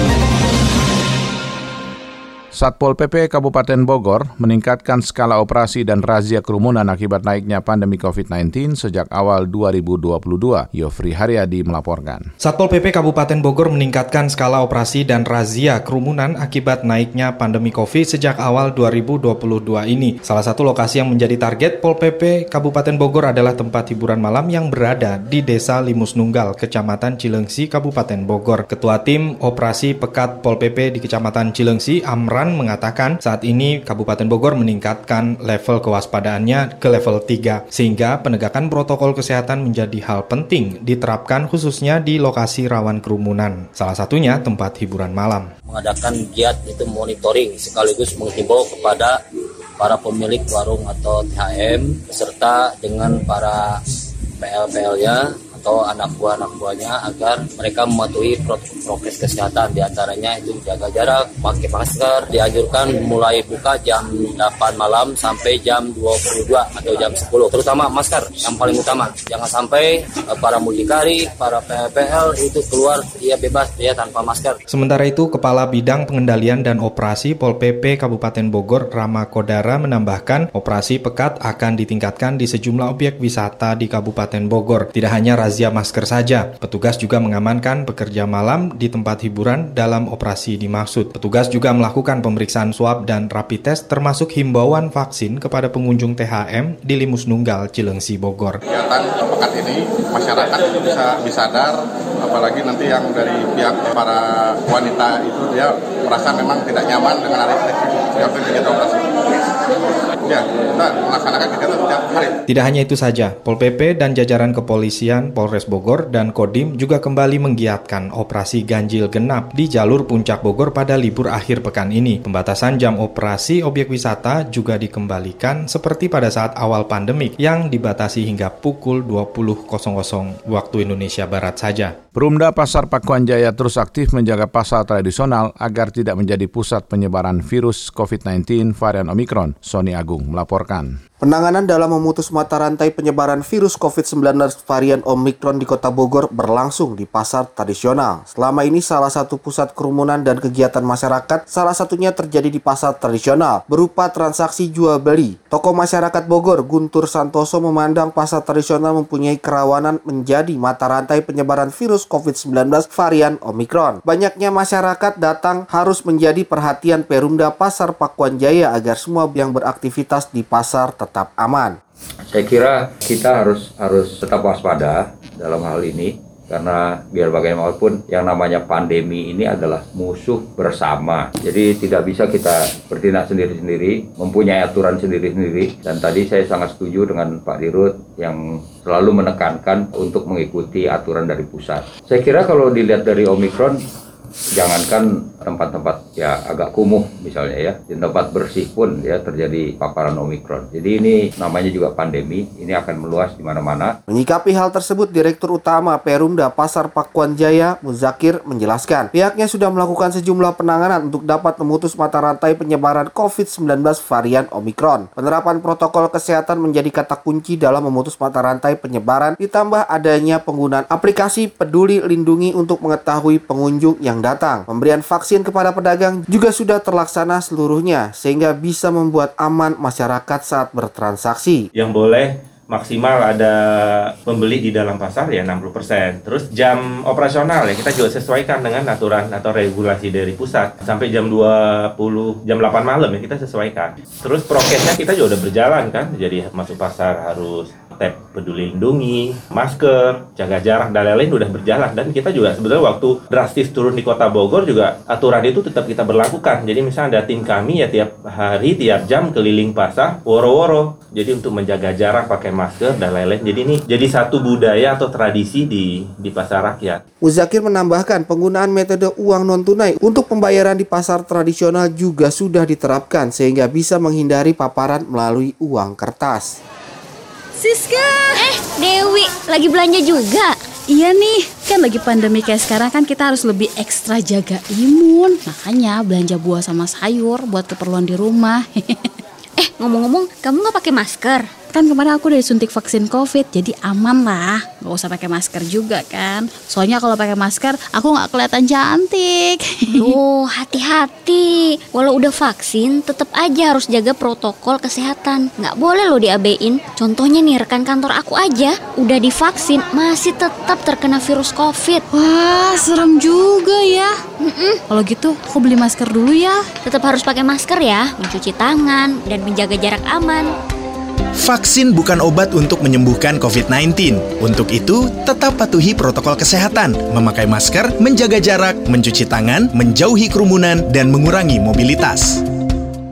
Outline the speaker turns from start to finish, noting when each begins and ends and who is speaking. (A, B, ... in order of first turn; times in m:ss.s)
0:02.5-0:12.3 A
0:12.4-0:45.5 B
0:45.7-0:49.2 C
0:49.8-0:53.8 C
0:54.4-1:14.6 C
1:14.7-1:38.6 B
1:38.7-1:49.1 D
1:50.2-1:52.4 D
1:52.5-2:11.9 B
2:12.1-2:21.0 A
2:21.2-2:51.8 E
2:52.3-3:13.8 F
3:14.5-3:23.9 F
3:24.1-3:51.6 E
3:51.7-4:27.0 G
4:27.2-4:36.5 E
4:37.7-4:38.2 H
4:38.4-4:40.5 I
4:40.9-4:49.1 H
4:49.6-4:51.5 I
4:51.7-5:00.2 H
5:00.0-5:12.0 I
5:12.1-5:14.1 H
5:14.4-5:14.8 I
5:14.9-5:16.6 H
5:16.8-5:20.5 I
5:21.4-5:32.4 J